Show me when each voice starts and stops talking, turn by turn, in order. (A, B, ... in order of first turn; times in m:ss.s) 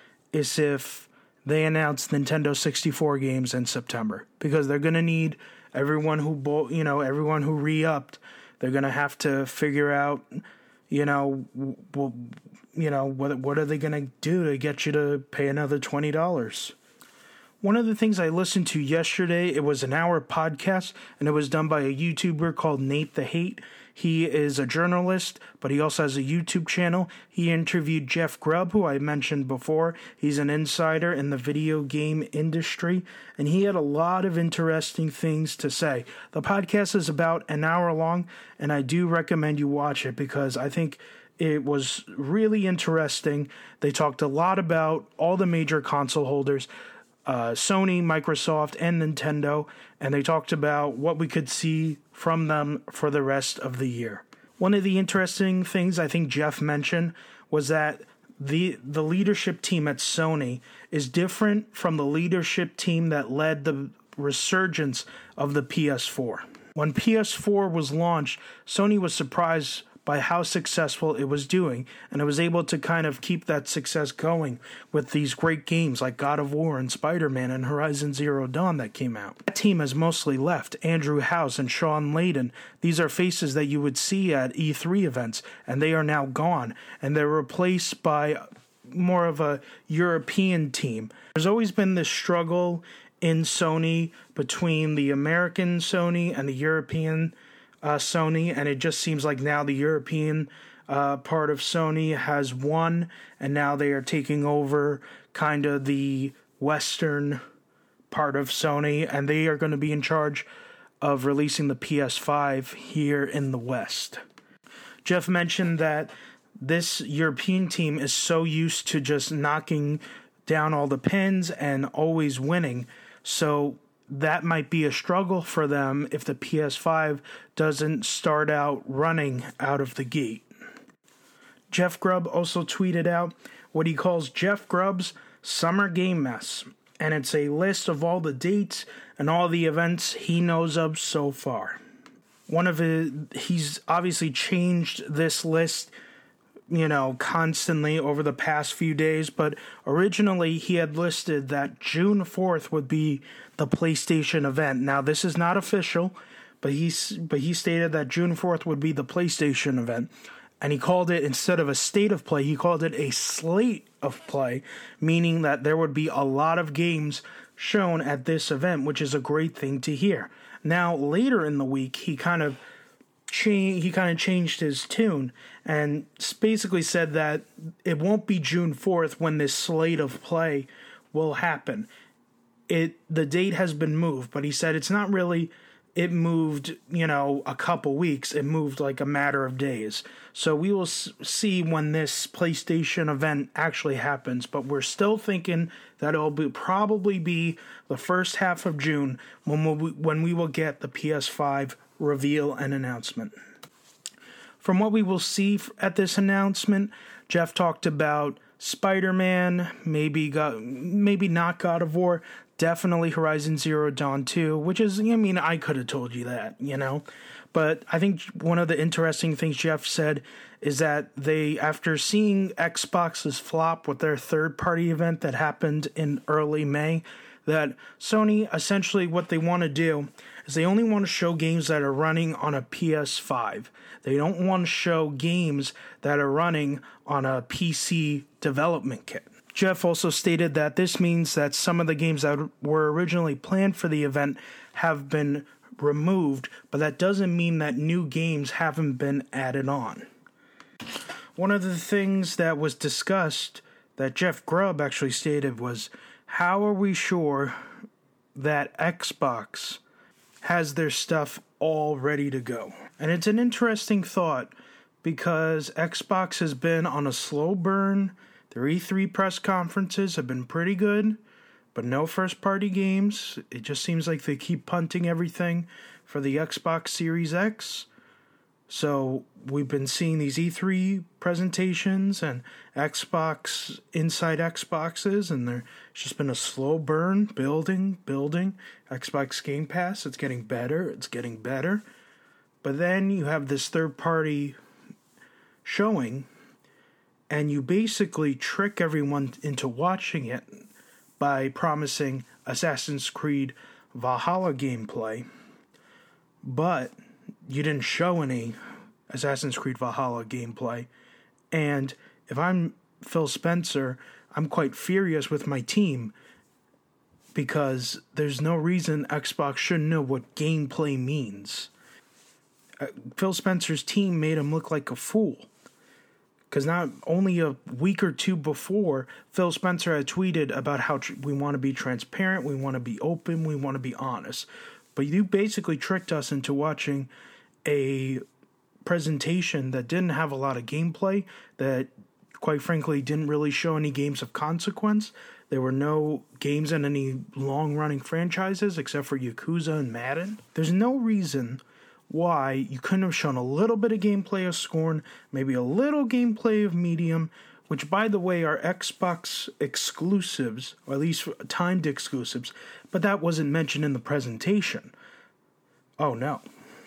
0:00.3-0:10.4 A
0:10.9-0:16.7 A
0:17.6-0:46.7 A
0:47.2-1:47.4 A
1:48.1-1:50.5 A
1:51.0-1:54.2 A
1:55.0-2:10.5 A
2:11.7-2:21.8 A
2:22.5-2:25.9 A
2:26.7-2:52.6 A
2:53.3-3:01.9 A
3:02.7-3:23.3 A
3:24.6-4:10.1 A
4:11.4-4:17.6 A
4:18.3-4:19.8 A
4:20.4-4:31.2 A
4:31.7-4:37.9 A
4:38.7-4:51.8 A
4:52.6-4:54.6 A
4:55.6-4:56.3 A
4:57.3-5:00.7 A
5:01.2-5:05.3 A
5:06.4-5:08.6 A
5:09.1-5:10.9 A
5:11.5-5:16.1 A
5:17.3-5:21.7 A
5:22.8-5:25.5 A
5:26.5-5:37.1 A
5:37.6-5:38.2 A
5:38.8-6:04.9 A
6:06.0-6:06.4 A